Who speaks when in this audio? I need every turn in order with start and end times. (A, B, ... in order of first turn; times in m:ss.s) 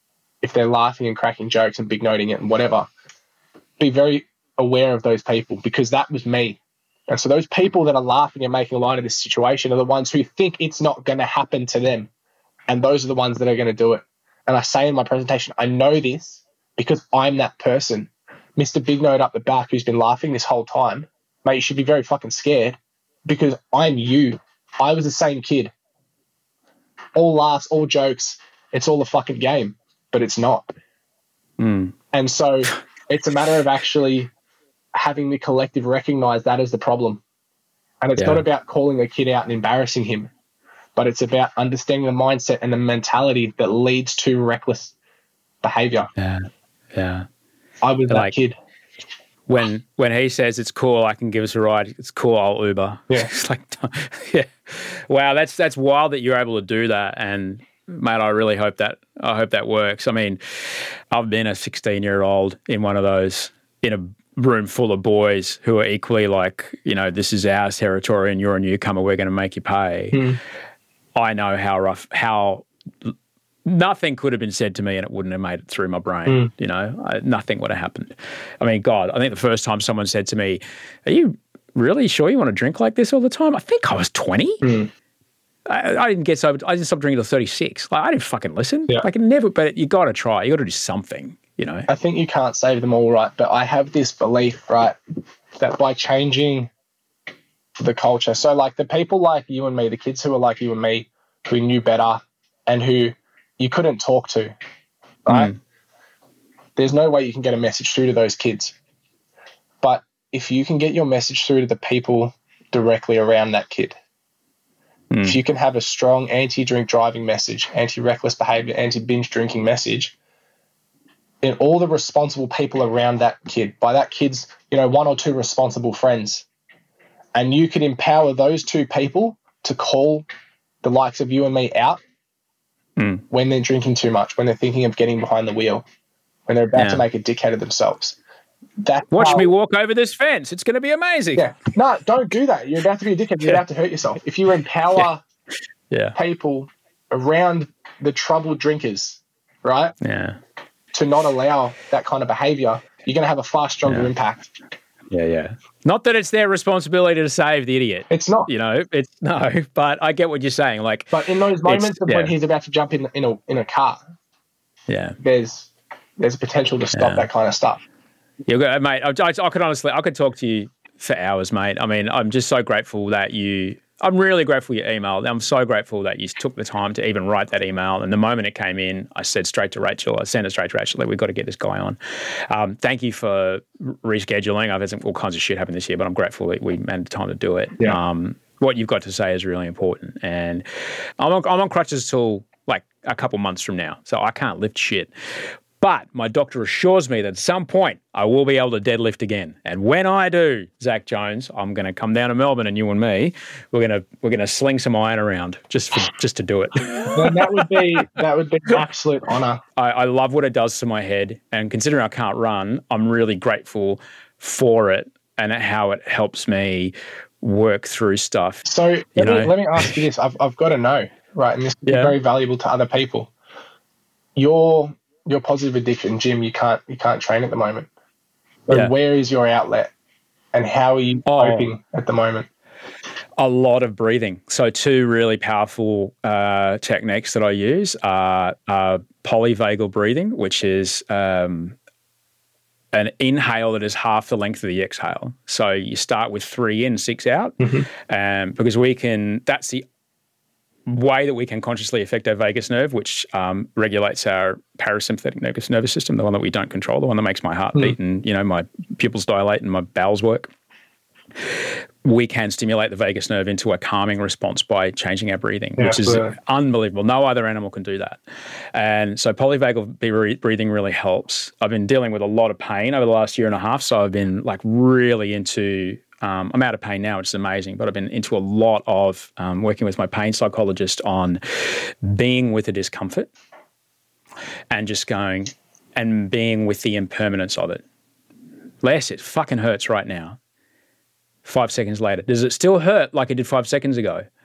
0:00.4-0:02.9 A
0:03.8-0:12.1 A
0:12.7-0:25.7 A
0:27.2-0:30.7 A
0:31.6-0:32.0 B
0:32.1-0:34.3 A
0:34.9-0:37.2 A
0:38.0-0:40.3 A
0:38.2-0:38.4 B
0:41.0-0:44.9 A
0:45.6-0:46.1 A
0:46.2-0:47.3 B
0:47.8-0:48.6 A
0:49.5-1:10.2 B
1:10.1-1:10.4 A
1:11.2-1:13.1 B
1:13.6-1:24.7 B
1:24.6-1:24.9 A
1:25.7-1:31.9 B
1:31.9-1:35.0 A
1:35.6-1:36.7 A
1:37.8-1:44.6 A
1:45.3-1:45.5 A
1:45.3-1:45.6 B
1:46.8-1:48.8 A
1:49.8-1:54.0 A
1:55.1-1:55.4 B
1:55.2-2:00.2 A
2:01.4-2:06.5 A
2:07.3-2:10.3 A
2:10.8-2:12.0 A
2:13.0-2:13.2 B
2:13.3-2:15.9 A
2:16.5-2:18.2 A
2:16.8-2:17.0 B
2:18.8-2:19.5 A
2:19.1-2:21.5 B
2:21.4-2:25.2 A
2:25.9-2:26.2 B
2:26.2-2:30.0 A
2:30.0-2:30.4 B
2:30.9-2:34.5 A
2:35.1-2:41.1 B
2:38.1-2:38.5 A
2:41.1-2:44.0 A
2:41.6-2:42.3 B
2:44.9-2:45.2 B
2:45.2-2:47.8 A
2:46.9-2:47.3 B
2:48.5-3:10.6 B
3:11.2-3:15.1 B
3:15.8-3:27.7 B
3:27.1-3:29.6 A
3:29.8-3:39.9 B
3:38.6-3:43.3 A
3:41.9-3:42.2 B
3:44.4-3:47.9 A
3:48.7-3:49.9 A
3:50.5-3:52.5 A
3:51.3-3:51.7 B
3:53.4-4:01.8 B
4:02.9-4:09.8 B
4:07.6-4:07.9 A
4:10.9-4:20.5 B
4:21.5-4:28.2 B
4:25.8-4:26.3 A
4:28.7-4:43.3 B
4:44.7-4:47.8 B
4:48.8-4:50.4 B
4:51.4-4:54.3 B